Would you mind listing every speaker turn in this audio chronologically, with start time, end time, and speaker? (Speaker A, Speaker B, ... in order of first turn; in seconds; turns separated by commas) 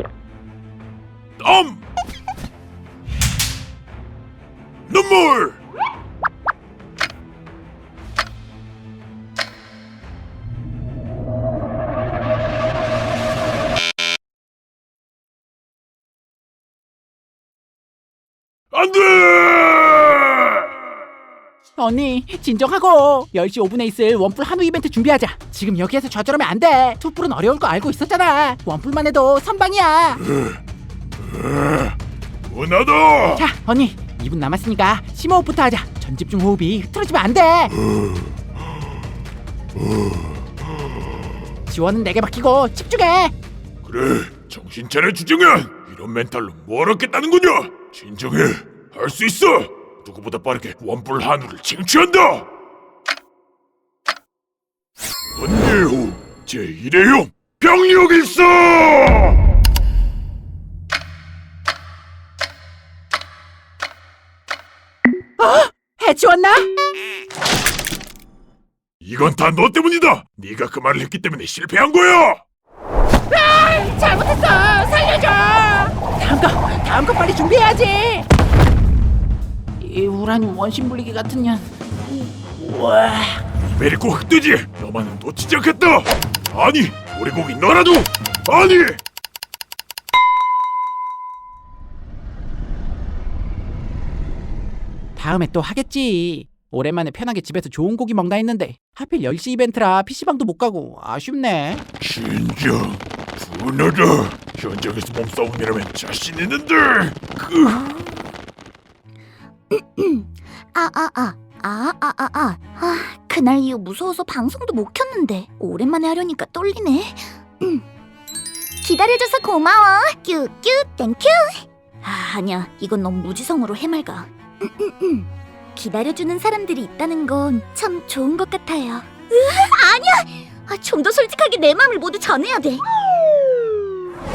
Speaker A: 1.4-1.8, Speaker A: 4.9-5.6, Speaker A: 18.7-20.7, Speaker B: 21.8-30.2, Speaker A: 30.2-30.6, Speaker A: 31.2-31.9, Speaker A: 32.5-33.5, Speaker B: 33.4-37.7, Speaker B: 41.7-43.3, Speaker A: 43.8-52.5, Speaker A: 55.4-59.4, Speaker B: 65.4-66.7, Speaker A: 69.0-72.4, Speaker B: 73.3-78.2, Speaker B: 79.8-81.7, Speaker B: 82.5-83.4, Speaker A: 83.7-89.0, Speaker B: 95.2-101.8, Speaker A: 102.0-108.0, Speaker C: 109.7-117.8, Speaker C: 118.8-132.8